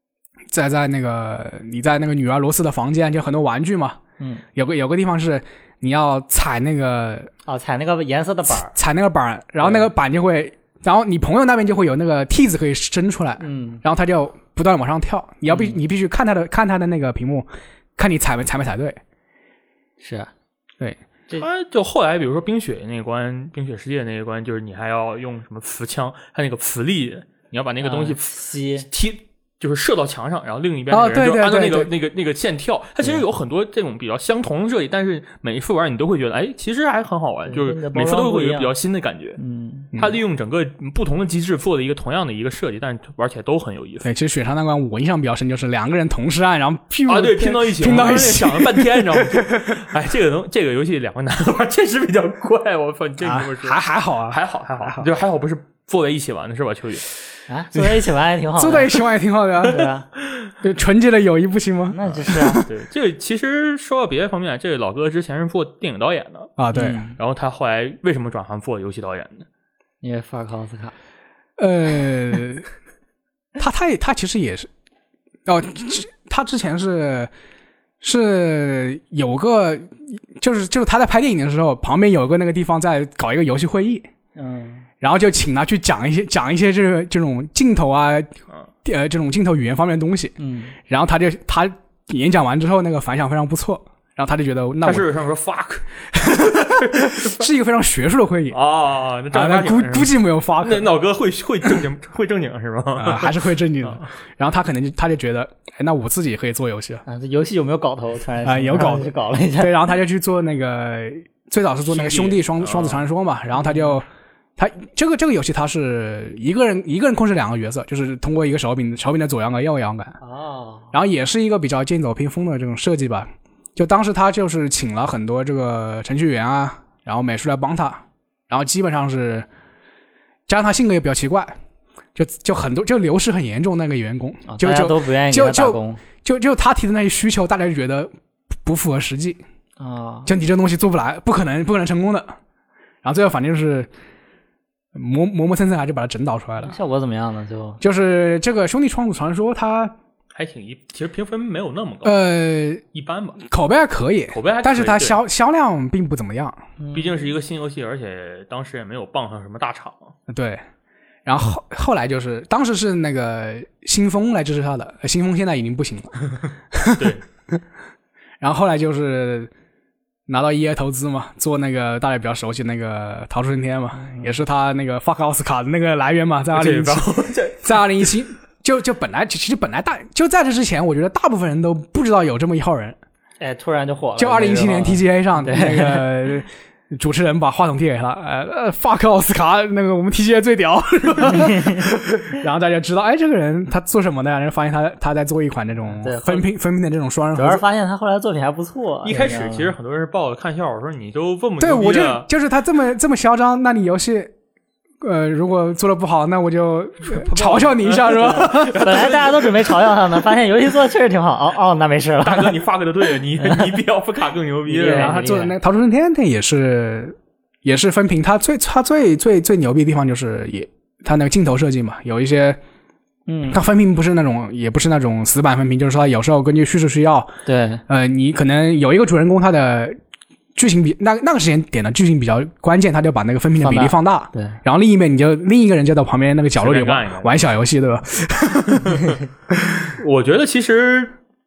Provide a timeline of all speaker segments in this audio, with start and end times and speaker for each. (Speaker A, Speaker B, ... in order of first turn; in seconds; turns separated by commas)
Speaker A: 0.5-4.0, Speaker A: 4.5-7.3, Speaker B: 7.5-8.7, Speaker A: 8.6-19.0, Speaker B: 9.6-9.9, Speaker B: 13.4-13.8, Speaker B: 15.5-15.8, Speaker B: 20.0-20.3, Speaker C: 21.3-39.4, Speaker B: 27.8-28.9, Speaker A: 30.9-31.9, Speaker B: 37.5-38.7, Speaker B: 39.4-39.9, Speaker C: 40.0-44.1, Speaker A: 44.0-49.8, Speaker C: 47.1-53.8, Speaker A: 53.2-55.1, Speaker C: 54.3-57.1, Speaker B: 57.5-59.0, Speaker A: 58.5-59.8, Speaker B: 59.6-60.0, Speaker C: 59.8-60.5, Speaker A: 60.6-62.7, Speaker B: 61.9-62.6, Speaker C: 62.0-66.5, Speaker A: 66.6-67.0, Speaker B: 66.7-67.1, Speaker C: 67.2-69.5, Speaker B: 70.0-70.9, Speaker A: 71.6-72.6, Speaker A: 73.6-74.7, Speaker A: 75.5-77.3, Speaker A: 78.0-84.1, Speaker B: 84.4-84.8, Speaker A: 85.0-95.1, Speaker B: 90.4-90.7, Speaker C: 94.8-97.4, Speaker A: 96.1-98.6, Speaker C: 98.5-104.0, Speaker A: 99.3-100.9, Speaker A: 103.0-107.0, Speaker B: 107.0-109.7, Speaker A: 108.4-114.0, Speaker C: 111.9-113.0, Speaker B: 113.7-113.9, Speaker A: 114.6-120.2, Speaker B: 120.2-120.9, Speaker A: 120.9-129.5, Speaker A: 130.5-131.5, Speaker A: 132.1-138.1, Speaker B: 134.4-136.0, Speaker A: 138.6-139.4, Speaker B: 139.8-140.3, Speaker A: 140.2-142.3, Speaker A: 143.0-143.9, Speaker A: 144.9-146.8, Speaker B: 146.6-147.8, Speaker A: 147.8-149.9, Speaker C: 150.3-152.2, Speaker A: 152.0-152.8, Speaker C: 152.9-153.4, Speaker A: 153.4-156.6, Speaker C: 154.3-155.2, Speaker B: 156.8-157.2, Speaker C: 156.9-160.1, Speaker A: 160.3-160.6, Speaker A: 161.2-167.6, Speaker C: 167.0-167.2, Speaker A: 168.4-169.5, Speaker A: 170.3-177.1, Speaker B: 174.0-174.3, Speaker C: 176.5-178.2, Speaker A: 177.6-183.0, Speaker B: 183.4-186.1, Speaker A: 184.2-197.6, Speaker B: 191.3-191.7, Speaker B: 195.9-196.4, Speaker B: 197.3-199.7, Speaker C: 199.0-202.3, Speaker A: 201.6-204.3, Speaker A: 205.0-209.0, Speaker C: 207.1-209.8, Speaker B: 207.9-212.6, Speaker C: 212.2-215.2, Speaker B: 213.4-213.8, Speaker B: 214.7-215.5, Speaker A: 214.9-222.6, Speaker B: 223.3-223.6, Speaker A: 223.5-227.3, Speaker B: 227.4-227.8, Speaker A: 227.9-230.0, Speaker A: 230.6-239.9, Speaker B: 233.6-234.6, Speaker C: 236.6-237.4, Speaker C: 238.8-239.2, Speaker C: 239.8-241.1